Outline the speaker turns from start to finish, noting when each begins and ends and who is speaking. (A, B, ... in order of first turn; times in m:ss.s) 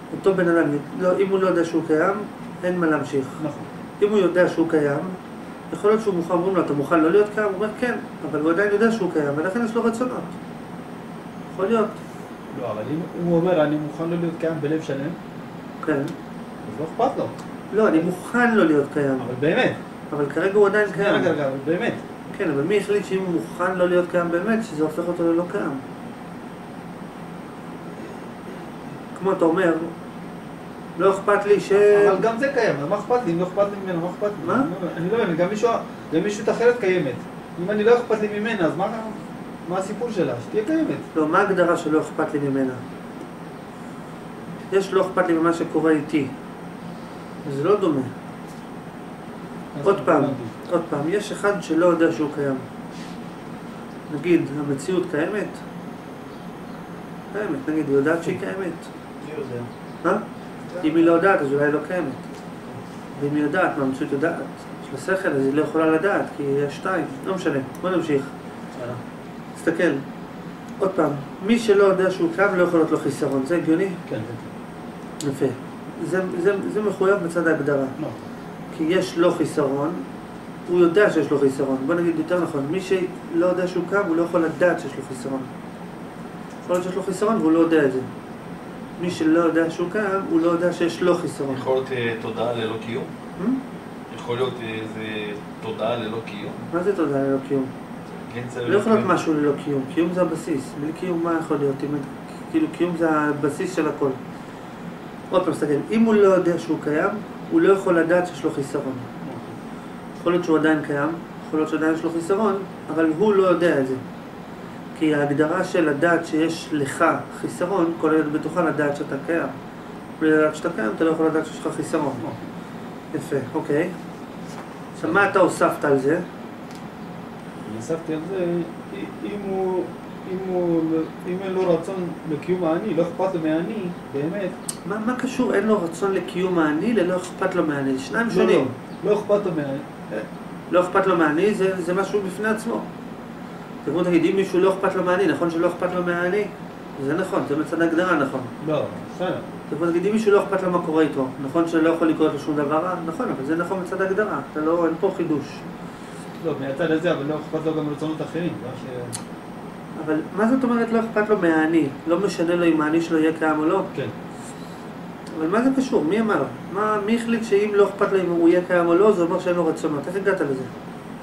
0:00.1-0:03.4 A
0:03.4-0:03.7 B
0:04.0-0:05.2 A
0:05.7-0:10.3 A
0:11.5-0:12.0 A
0:12.5-0:15.2 B
0:15.8-0:16.1 A
0:16.6-0:17.4 B
0:17.7-0:19.3 A
0:19.2-0:19.8 B
0:20.1-0:21.3 A
0:20.9-0:22.0 B
0:22.3-0:25.8 A
0:29.2-0:29.9 A
0:31.0-0:32.2 A
0:31.8-0:41.1 B
0:34.4-0:34.7 A
0:41.1-0:42.8 A
0:44.7-0:46.3 A
0:47.4-0:48.1 A
0:49.7-0:50.5 B
0:49.8-0:52.6 A
0:54.1-0:55.6 A
0:57.3-0:58.9 A
1:00.8-1:02.2 A
1:03.1-1:08.3 A
1:08.8-1:09.0 B
1:09.6-1:10.0 A
1:10.8-1:14.0 A
1:14.1-1:14.5 B
1:15.2-1:17.9 A
1:18.7-1:20.0 A
1:20.7-1:25.5 A
1:26.6-1:28.1 A
1:29.0-1:31.7 A
1:31.5-1:33.1 C
1:34.1-1:36.6 C
1:36.7-1:37.7 A
1:38.1-1:39.2 C
1:38.7-1:44.2 A
1:45.3-1:49.1 A
1:49.2-1:49.6 B
1:50.2-1:54.0 A
1:55.0-1:59.5 A
2:00.2-2:02.2 A
2:03.1-2:04.0 A
2:05.0-2:06.2 A
2:07.6-2:14.6 B
2:14.8-2:18.7 A
2:18.3-2:20.3 B
2:20.7-2:22.9 A
2:23.8-2:28.5 A
2:28.6-2:29.5 B
2:29.7-2:35.6 A
2:36.4-2:39.2 B
2:40.0-2:43.9 A
2:45.3-2:50.7 A